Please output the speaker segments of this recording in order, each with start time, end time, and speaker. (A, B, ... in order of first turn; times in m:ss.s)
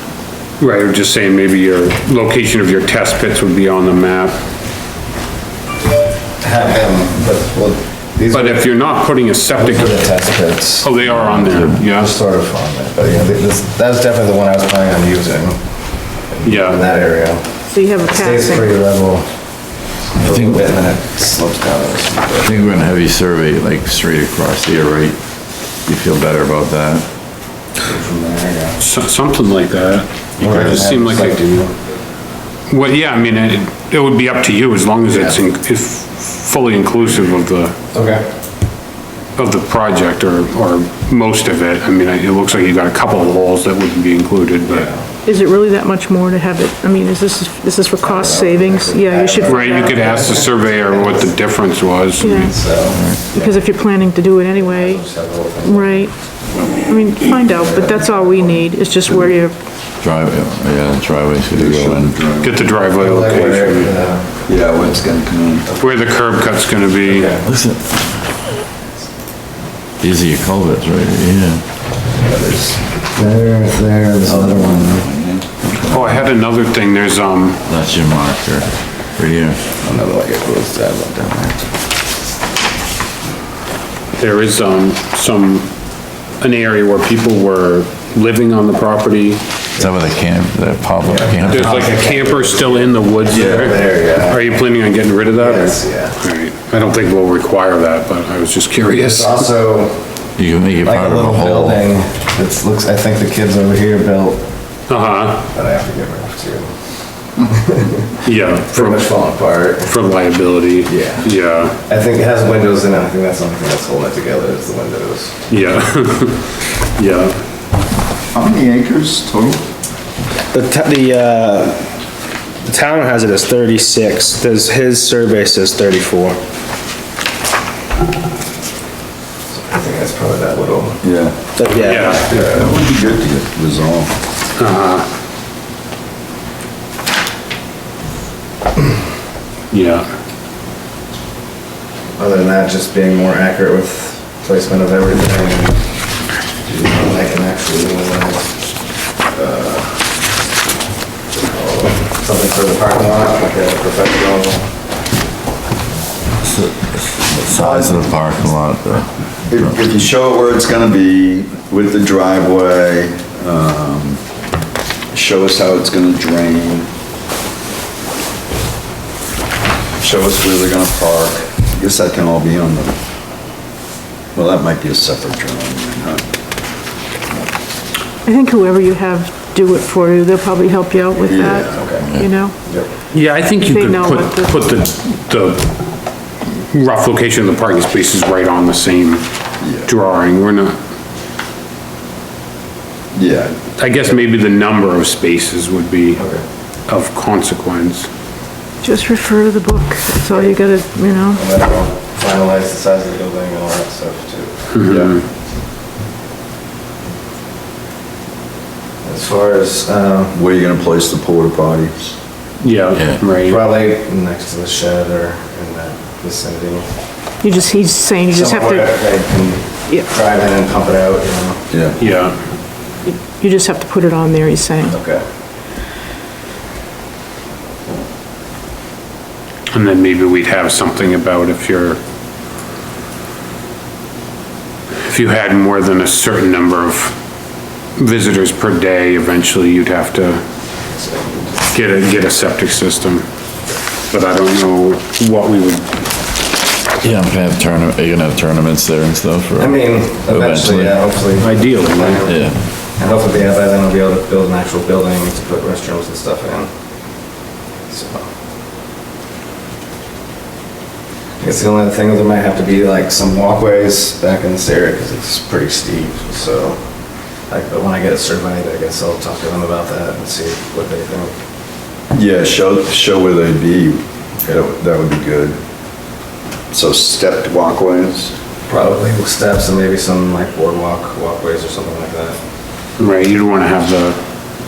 0:00.6-0:04.4 A
0:06.4-0:08.7 B
0:08.3-0:10.1 A
0:09.5-0:19.3 B
0:10.8-0:12.1 A
0:11.2-0:11.8 C
0:16.4-0:16.8 A
0:17.7-0:18.7 D
0:20.1-0:22.8 B
0:20.2-0:20.8 C
0:22.4-0:25.2 C
0:25.8-0:27.0 C
0:27.8-0:28.8 B
0:28.8-0:31.5 A
0:30.4-0:31.7 B
0:32.7-0:37.7 A
0:35.1-0:35.4 B
0:37.9-0:38.2 B
0:39.4-0:44.9 A
0:44.6-0:45.1 B
0:45.2-0:50.3 D
0:48.0-0:51.3 B
0:49.4-0:52.5 A
0:52.2-0:52.6 D
0:52.2-0:53.6 B
0:52.9-0:53.2 C
0:53.2-0:55.0 D
0:54.5-0:56.1 B
0:55.6-0:56.1 D
0:56.7-0:59.6 D
0:57.4-0:58.7 B
1:00.0-1:02.2 C
1:01.5-1:02.6 E
1:02.4-1:03.9 A
1:03.0-1:04.4 B
1:04.4-1:05.7 E
1:05.8-1:07.3 A
1:07.0-1:07.5 B
1:07.4-1:08.2 C
1:10.0-1:11.6 C
1:12.1-1:15.1 B
1:14.2-1:15.5 E
1:15.7-1:16.1 C
1:15.9-1:17.6 A
1:17.6-1:19.6 C
1:19.8-1:21.7 B
1:24.2-1:25.7 A
1:26.4-1:29.4 A
1:29.8-1:31.9 C
1:31.0-1:34.7 B
1:31.5-1:39.4 A
1:33.3-1:33.7 E
1:35.3-1:36.2 B
1:38.8-1:40.2 B
1:40.4-1:41.8 C
1:40.8-1:44.4 B
1:44.9-1:45.4 A
1:45.5-1:46.7 B
1:47.4-1:49.9 B
1:48.2-1:49.1 A
1:49.8-1:51.8 A
1:50.9-1:51.3 B
1:51.8-1:55.5 B
1:55.5-1:57.4 A
1:58.3-1:59.6 E
2:00.5-2:01.8 F
2:02.6-2:06.4 F
2:09.5-2:11.0 B
2:11.0-2:14.1 E
2:11.6-2:12.1 F
2:11.8-2:12.3 A
2:12.0-2:12.7 B
2:14.6-2:15.0 A
2:19.7-2:20.1 A
2:22.1-2:25.8 B
2:26.7-2:28.5 B
2:29.2-2:30.0 B
2:31.3-2:34.7 B
2:36.4-2:39.8 C
2:37.4-2:38.0 B
2:39.5-2:44.2 E
2:45.1-2:46.9 E
2:50.0-2:53.0 E
2:54.3-2:56.2 E
2:58.2-3:02.6 D
3:01.2-3:02.0 E
3:01.8-3:02.1 B
3:02.0-3:02.3 C
3:03.1-3:05.7 A
3:03.6-3:04.7 D
3:06.4-3:09.2 A
3:09.6-3:09.9 E
3:09.8-3:10.8 A
3:13.1-3:13.9 E
3:13.8-3:16.2 A
3:16.2-3:16.4 B
3:16.9-3:18.1 A
3:18.8-3:21.4 D
3:21.3-3:25.1 B
3:24.7-3:25.2 A
3:24.9-3:25.1 E
3:29.0-3:30.4 B
3:30.3-3:32.2 E
3:32.6-3:33.6 A
3:32.9-3:33.2 C
3:33.4-3:36.9 B
3:37.4-3:39.2 D
3:38.3-3:41.6 B
3:41.7-3:42.0 E
3:42.0-3:42.4 A
3:43.0-3:45.0 D
3:44.9-3:45.2 B
3:49.7-3:52.0 A
3:55.0-3:57.2 A
3:58.0-4:00.4 A
4:00.8-4:01.7 B
4:01.7-4:03.2 A
4:04.1-4:05.9 A
4:07.0-4:11.0 C
4:09.6-4:16.7 B
4:11.4-4:12.3 A
4:12.2-4:12.6 C
4:17.9-4:18.3 B
4:21.4-4:26.8 B
4:27.5-4:31.3 B
4:32.1-4:35.6 E
4:36.7-4:38.3 E
4:38.7-4:42.4 B
4:43.0-4:44.2 A